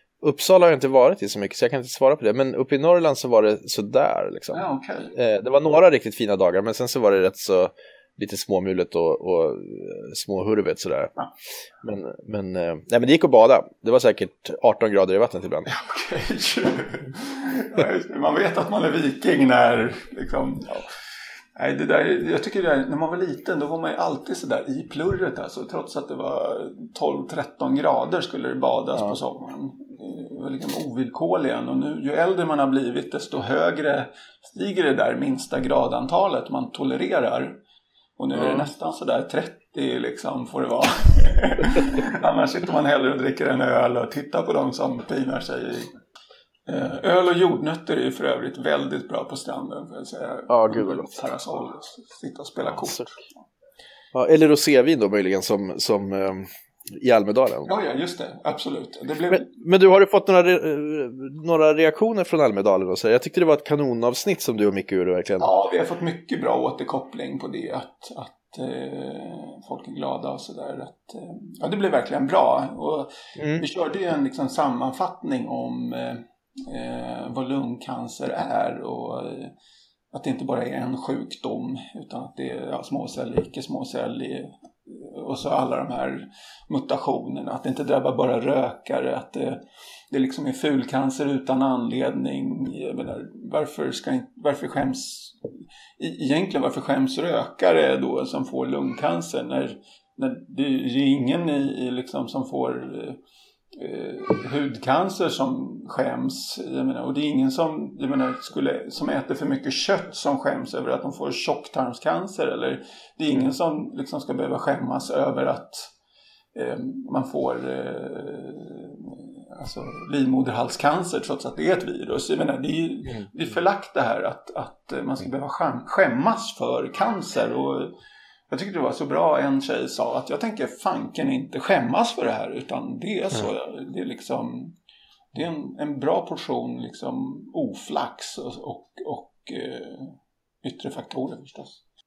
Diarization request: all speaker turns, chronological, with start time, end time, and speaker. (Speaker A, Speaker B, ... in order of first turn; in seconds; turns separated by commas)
Speaker A: 0.2-11.1, Speaker B: 4.5-5.1, Speaker A: 11.8-15.7, Speaker B: 15.7-20.9, Speaker B: 21.6-37.6, Speaker B: 38.2-45.9, Speaker A: 38.4-38.7, Speaker B: 46.7-53.3, Speaker A: 50.5-51.1, Speaker A: 54.1-57.7, Speaker B: 57.7-59.5, Speaker A: 59.3-65.5, Speaker B: 65.4-79.5, Speaker A: 73.4-73.6, Speaker B: 80.1-89.6, Speaker B: 90.1-95.4, Speaker B: 96.0-103.2, Speaker B: 103.7-115.9, Speaker B: 116.5-128.0, Speaker B: 128.5-134.8, Speaker B: 135.3-141.8